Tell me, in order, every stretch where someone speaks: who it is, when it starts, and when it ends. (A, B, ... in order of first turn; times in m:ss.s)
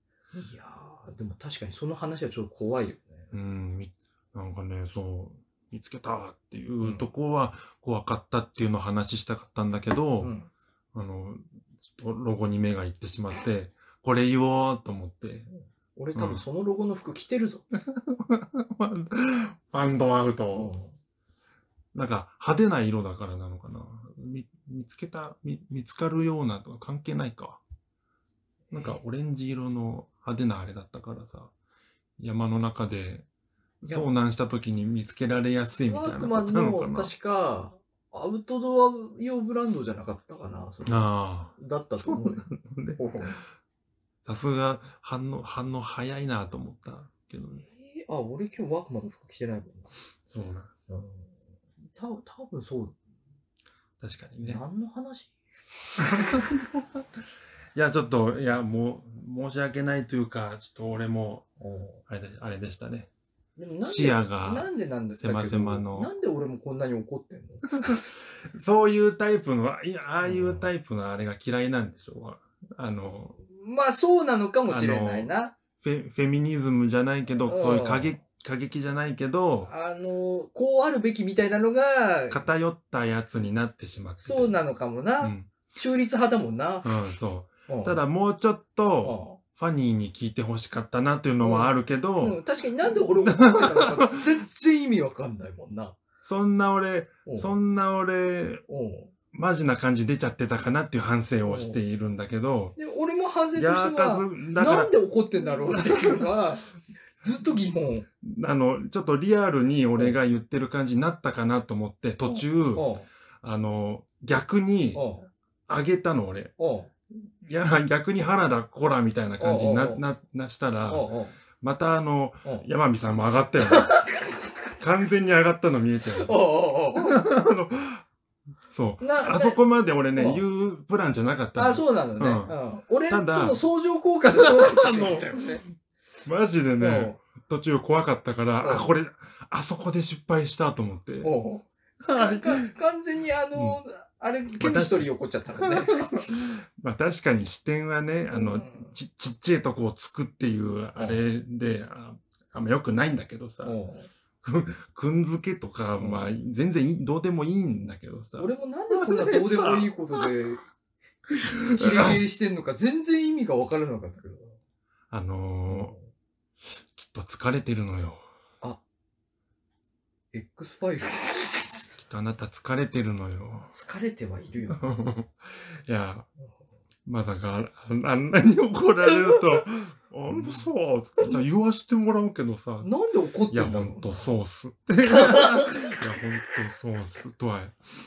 0:00.3-0:03.3 A
0:03.3-0:10.3 B
0:06.8-0:07.1 A
0:10.2-0:10.5 A
0:10.9-0:15.5 B
0:15.5-0:17.6 A
0:16.2-0:16.4 B
0:17.7-0:20.7 B
0:20.5-0:20.9 A
0:21.9-0:27.6 B
0:28.7-0:31.5 B
0:32.2-0:33.2 B
0:33.8-0:37.1 B
0:35.9-0:43.4 A
0:40.8-0:43.4 B
0:44.2-0:47.6 B
0:47.7-0:49.9 A
0:50.3-0:50.8 B
0:50.9-0:51.3 A
0:51.9-0:53.0 A
0:54.0-0:54.6 B
0:54.4-0:55.3 A
0:56.0-0:57.0 B
0:57.8-1:01.5 B
1:01.6-1:02.0 A
1:02.1-1:03.1 B
1:03.6-1:08.0 A
1:03.9-1:04.7 B
1:05.2-1:06.1 B
1:07.8-1:13.4 B
1:10.2-1:10.7 A
1:13.4-1:15.6 A
1:14.7-1:19.7 B
1:17.5-1:18.2 A
1:19.6-1:22.4 A
1:22.3-1:24.6 B
1:24.2-1:27.1 A
1:25.2-1:25.5 B
1:26.8-1:34.2 B
1:27.7-1:28.0 A
1:29.0-1:29.4 A
1:31.4-1:36.0 A
1:36.2-1:38.6 B
1:37.3-1:37.6 A
1:38.7-1:39.1 A
1:39.3-1:42.8 B
1:41.5-1:41.8 A
1:42.8-1:46.7 A
1:43.6-1:44.9 B
1:45.7-1:46.3 B
1:47.2-1:48.1 A
1:48.2-1:52.9 B
1:52.3-1:53.1 A
1:53.4-1:55.0 B
1:54.9-1:55.3 A
1:55.7-1:56.5 B
1:56.6-1:56.9 A
1:57.1-2:03.9 B
1:59.4-2:00.0 A
2:00.9-2:01.4 A
2:03.7-2:04.3 A
2:04.8-2:06.4 B
2:06.1-2:07.2 A
2:07.0-2:08.0 B
2:08.7-2:12.6 B
2:09.0-2:09.6 A
2:10.2-2:10.4 A
2:11.6-2:15.6 A
2:13.1-2:13.6 B
2:14.3-2:15.4 B
2:16.2-2:21.3 B
2:16.8-2:17.2 A
2:21.2-2:26.6 A
2:22.0-2:22.7 B
2:24.6-2:33.8 B
2:28.3-2:29.0 A
2:31.0-2:31.2 A
2:33.6-2:34.1 A
2:34.4-2:40.3 B
2:36.0-2:36.3 A
2:38.4-2:40.6 A
2:41.5-2:42.2 B
2:41.5-2:44.6 A
2:45.1-2:46.0 B
2:45.7-2:46.1 A
2:46.9-2:48.2 B
2:50.3-2:51.9 A
2:52.0-2:53.7 B
2:53.7-2:54.8 A
2:54.7-2:56.3 B
2:57.1-3:02.9 B
2:59.3-2:59.6 A
3:00.3-3:00.6 A
3:02.8-3:04.3 A
3:03.5-3:07.8 B
3:05.0-3:06.0 A